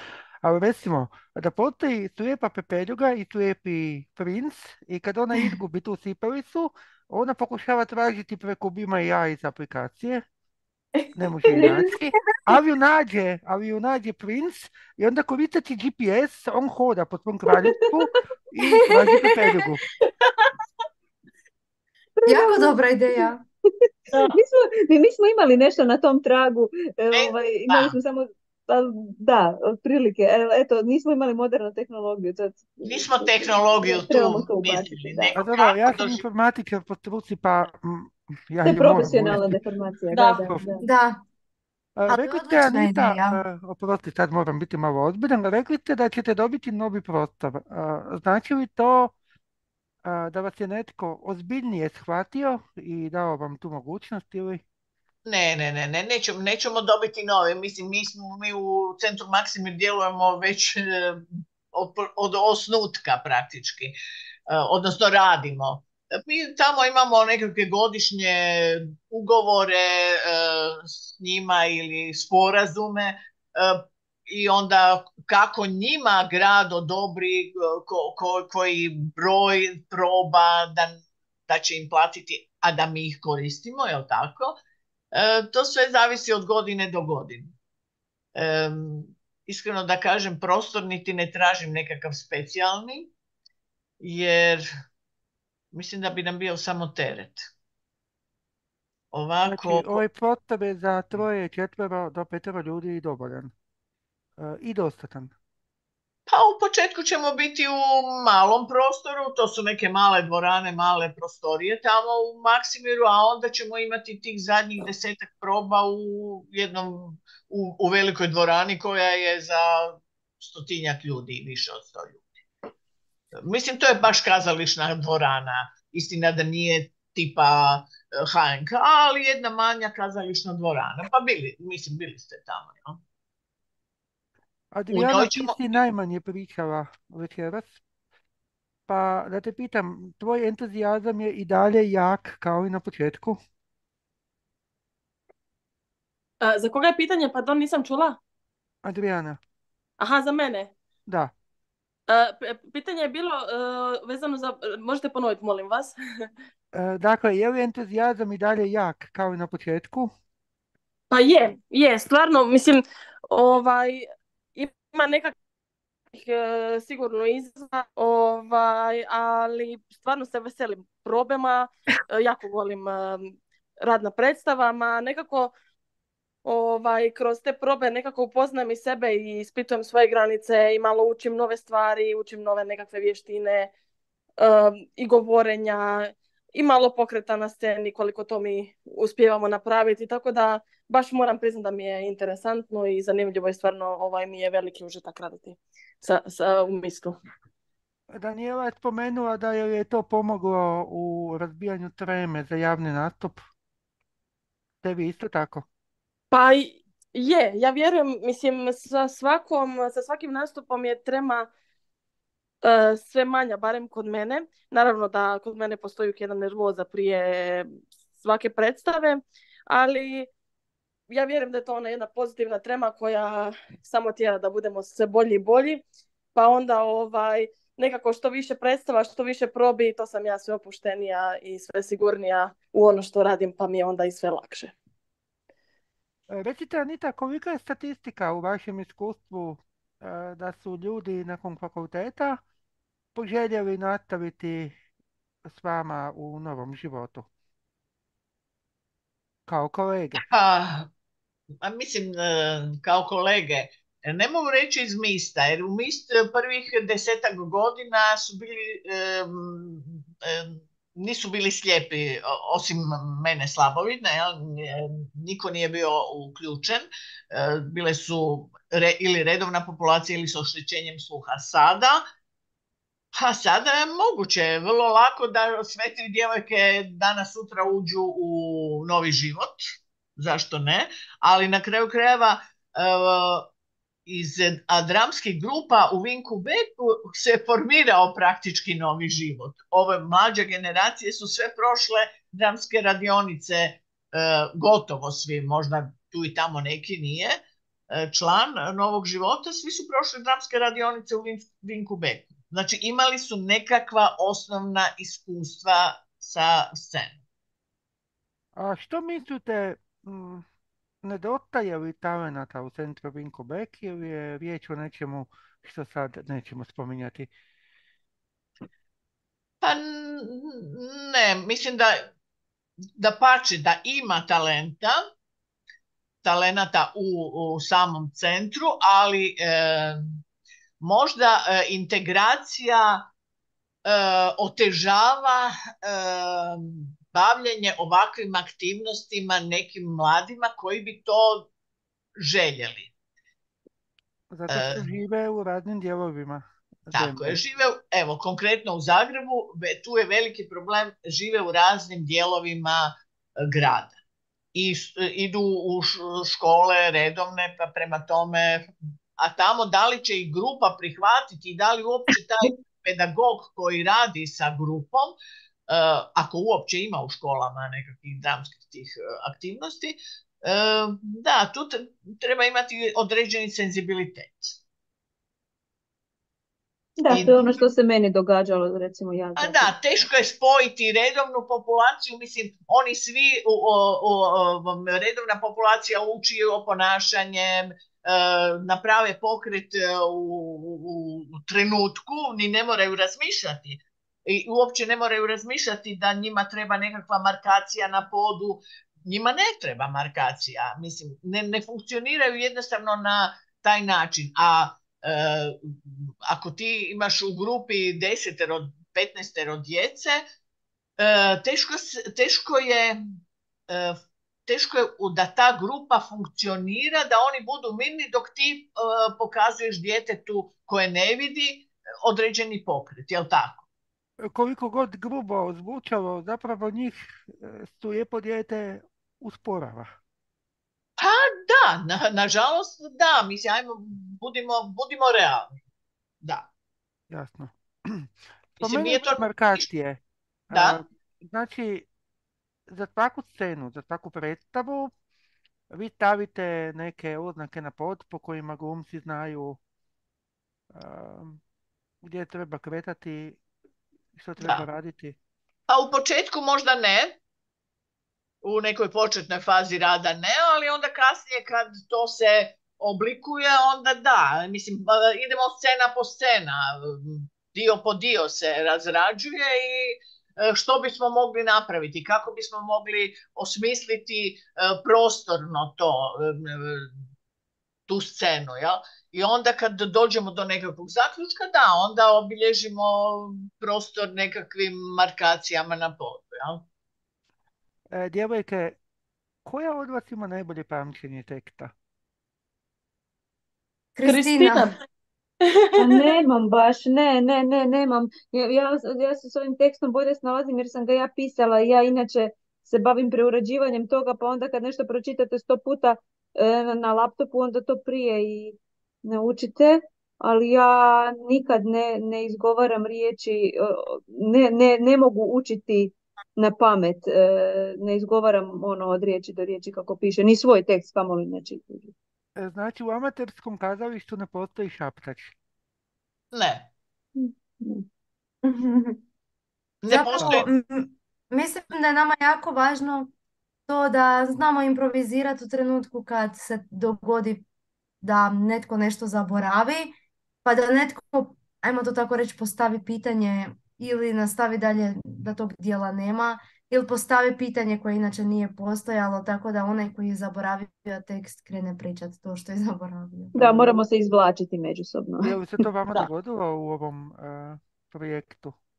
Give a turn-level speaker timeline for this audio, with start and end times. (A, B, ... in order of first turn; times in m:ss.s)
0:00.4-0:10.2 A
0:11.1-0:19.8 A
0:20.2-0:20.5 B
0:22.2-0:22.8 C
0:22.2-0:23.4 D
0:24.1-0:24.4 B
0:24.2-0:35.4 C
0:27.1-0:28.0 E
0:32.8-0:36.2 E
0:35.3-0:39.6 A
0:38.6-0:40.8 C
0:40.1-0:40.4 B
0:40.8-0:41.2 D
0:42.0-0:49.1 A
0:42.1-0:43.4 D
0:50.0-0:54.6 A
0:55.2-1:04.0 E
1:04.5-1:24.6 E
1:25.1-1:27.5 E
1:28.3-1:33.1 E
1:34.0-1:34.6 E
1:35.7-1:37.5 E
1:39.1-1:40.0 E
1:39.5-1:43.5 A
1:44.4-1:45.3 A
1:46.3-2:02.3 E
2:03.4-2:13.0 E
2:14.7-2:17.7 A
2:14.9-2:15.7 E
2:18.9-2:23.4 A
2:26.4-2:28.2 B
2:28.8-2:29.4 A
2:30.0-2:30.7 B
2:31.1-2:31.3 A
2:32.1-2:35.9 B
2:36.7-2:40.1 A
2:41.1-2:45.3 B
2:46.1-2:55.5 B
2:56.4-3:03.7 B
3:04.4-3:17.2 B
3:18.1-3:23.4 A
3:24.8-3:25.6 A
3:26.3-3:31.5 B
3:32.6-3:40.3 B
3:41.1-3:45.8 B
3:46.3-3:54.7 B
3:56.3-4:02.4 A
4:03.1-4:04.7 A
4:05.4-4:07.3 A
4:09.5-4:10.2 A
4:10.2-4:10.9 E
4:11.6-4:32.0 E
4:33.1-4:39.6 E
4:40.2-4:43.5 E
4:44.0-4:57.4 E
4:57.9-5:07.2 E
5:08.6-5:10.4 A
5:11.0-5:17.3 A
5:19.6-5:22.1 E
5:23.0-5:25.0 E
5:26.2-5:30.2 E
5:30.8-5:33.0 E
5:33.8-5:41.5 E
5:42.2-5:42.9 E
5:44.3-5:47.4 A
5:44.5-5:44.8 E
5:46.9-5:54.0 E
5:54.5-6:05.1 E
6:05.7-6:14.6 E
6:17.0-6:19.7 C
6:17.1-6:17.6 E
6:19.4-6:50.2 E
6:51.0-6:53.0 E
6:53.7-7:03.6 E
7:04.2-7:09.9 A
7:11.0-7:15.6 E
7:16.2-7:16.5 E
7:17.1-7:21.9 A
7:18.6-7:19.7 E
7:20.5-7:20.8 E
7:22.7-7:24.9 A
7:25.7-7:29.6 A
7:30.7-7:31.4 A
7:32.0-7:33.4 A
7:34.1-7:35.2 A
7:35.7-7:37.2 E
7:38.4-7:56.9 E
7:57.9-8:06.6 E
8:07.9-8:08.8 A
8:09.4-8:11.7 A
8:14.0-8:14.7 D
8:14.0-8:14.8 B
8:15.8-8:41.9 C
8:42.4-8:45.3 A
8:46.3-8:46.7 E
8:47.2-8:47.8 C
8:48.4-8:48.9 C
8:49.8-8:50.5 E
8:49.9-8:53.1 D
8:53.7-8:57.4 D
8:58.0-8:59.9 D
9:00.4-9:13.8 D
9:13.3-9:15.4 C
9:15.2-9:18.5 A